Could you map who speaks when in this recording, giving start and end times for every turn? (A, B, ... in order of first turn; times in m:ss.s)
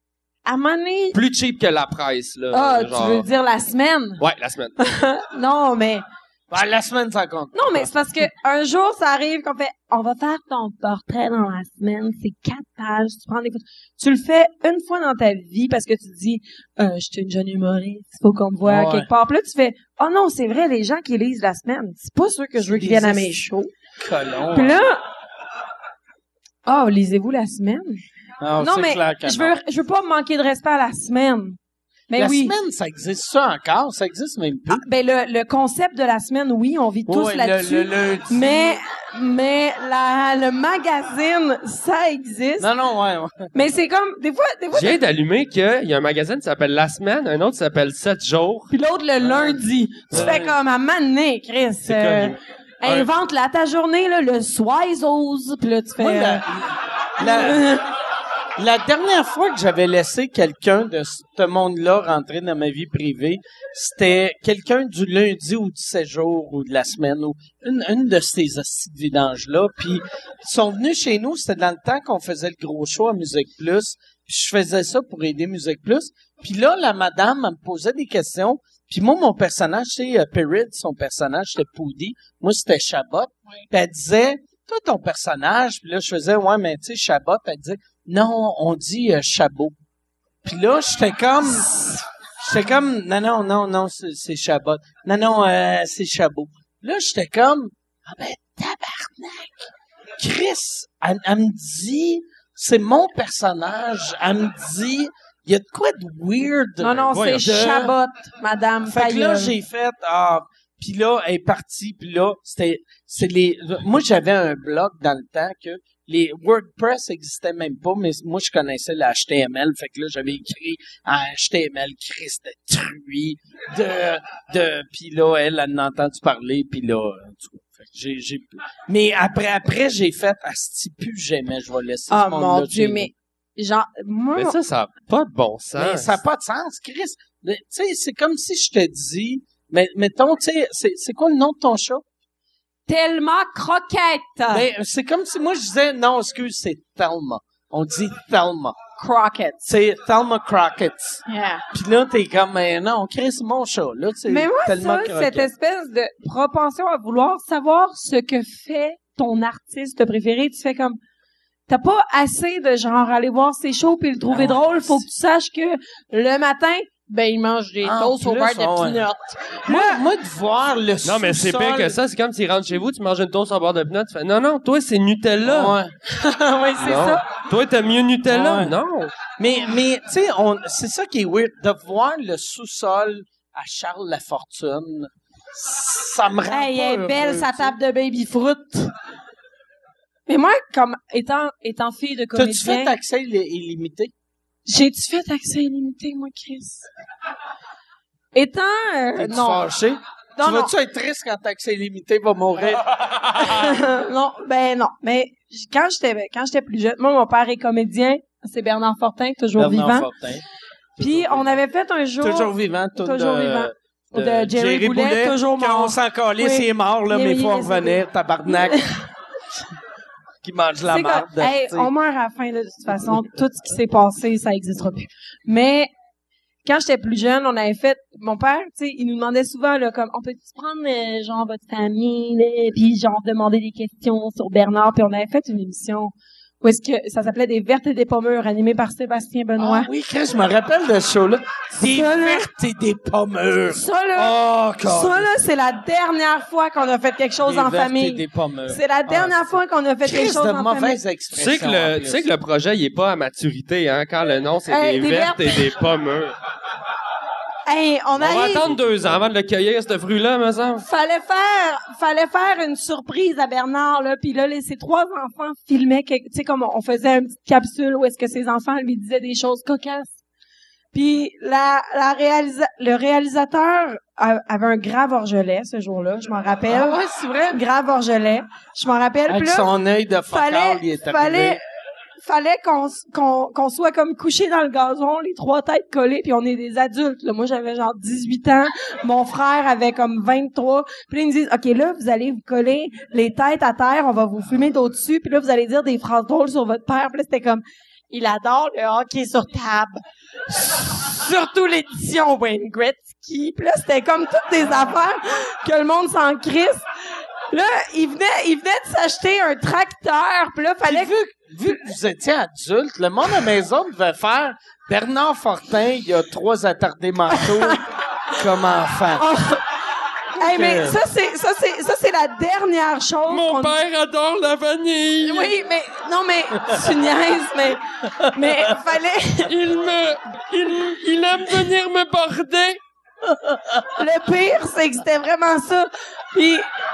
0:00.4-0:01.2 A
0:01.1-0:03.2 B
0:02.5-0:04.2 A
0:04.2-0:04.8 B
0:04.8-0:06.0 A
0:06.5-0:07.8 C
0:07.5-0:23.7 A
0:18.6-0:19.1 C
0:22.7-0:23.4 C
0:24.0-0:24.8 C
0:24.5-0:25.0 A
0:26.6-0:28.0 A
0:28.4-0:29.6 C
0:28.6-0:31.6 A
0:32.1-0:32.5 A
0:32.1-0:34.8 C
0:34.7-0:42.7 A
0:37.1-0:38.8 C
0:42.6-0:43.5 C
0:43.5-0:45.0 A
0:44.7-0:48.7 B
0:48.7-0:56.4 A
0:49.3-0:49.6 B
0:50.1-0:50.5 B
0:51.8-0:53.1 B
0:56.0-0:57.6 C
0:57.2-0:57.9 A
0:58.6-1:29.8 C
1:30.4-1:31.7 C
1:31.6-1:32.0 A
1:32.4-1:47.9 C
1:46.8-1:49.5 A
1:47.0-1:47.5 B
1:48.8-2:13.1 C
2:12.1-2:14.6 A
2:14.4-2:16.2 B
2:15.7-2:22.0 C
2:22.9-2:24.7 A
2:24.5-2:28.8 C
2:29.0-2:29.6 A
2:29.6-2:35.5 C
2:31.3-2:31.6 A
2:34.3-2:41.0 A
2:41.7-2:50.0 A
2:44.3-2:45.0 C
2:47.8-2:49.0 C
2:49.6-2:52.0 C
2:51.0-2:55.8 B
2:55.4-2:56.0 C
2:56.1-2:57.2 A
2:56.8-2:59.1 B
2:58.3-2:58.7 C
2:59.4-3:07.8 C
3:06.5-3:08.9 A
3:10.3-3:13.0 A
3:12.3-3:14.1 C
3:14.6-3:16.9 A
3:18.3-3:19.6 A
3:19.2-3:22.8 C
3:20.4-3:20.7 A
3:23.4-3:30.1 A
3:29.6-3:30.4 C
3:31.0-3:31.5 C
3:31.0-3:39.0 A
3:32.2-3:38.8 C
3:40.4-3:41.9 C
3:40.9-3:45.9 A
3:46.6-3:59.9 A
3:59.6-4:05.3 C
4:01.8-4:02.5 A
4:03.7-4:11.0 A
4:07.4-4:09.4 C
4:10.0-4:12.3 C
4:11.3-4:16.3 B
4:14.7-4:15.7 A
4:17.7-4:18.6 A
4:18.2-4:20.8 B
4:20.8-4:30.2 A
4:30.9-4:37.0 A
4:36.7-4:37.6 C
4:37.5-4:39.7 A
4:39.3-4:41.6 C
4:40.3-4:41.6 A
4:42.2-5:06.8 A
5:07.5-5:11.1 A
5:10.8-5:19.2 C
5:17.3-5:17.8 A
5:19.2-5:19.6 A
5:20.3-5:23.7 A
5:20.4-5:21.0 C
5:23.3-5:25.5 B
5:25.2-5:29.5 A
5:29.4-5:32.8 B
5:33.9-5:36.7 A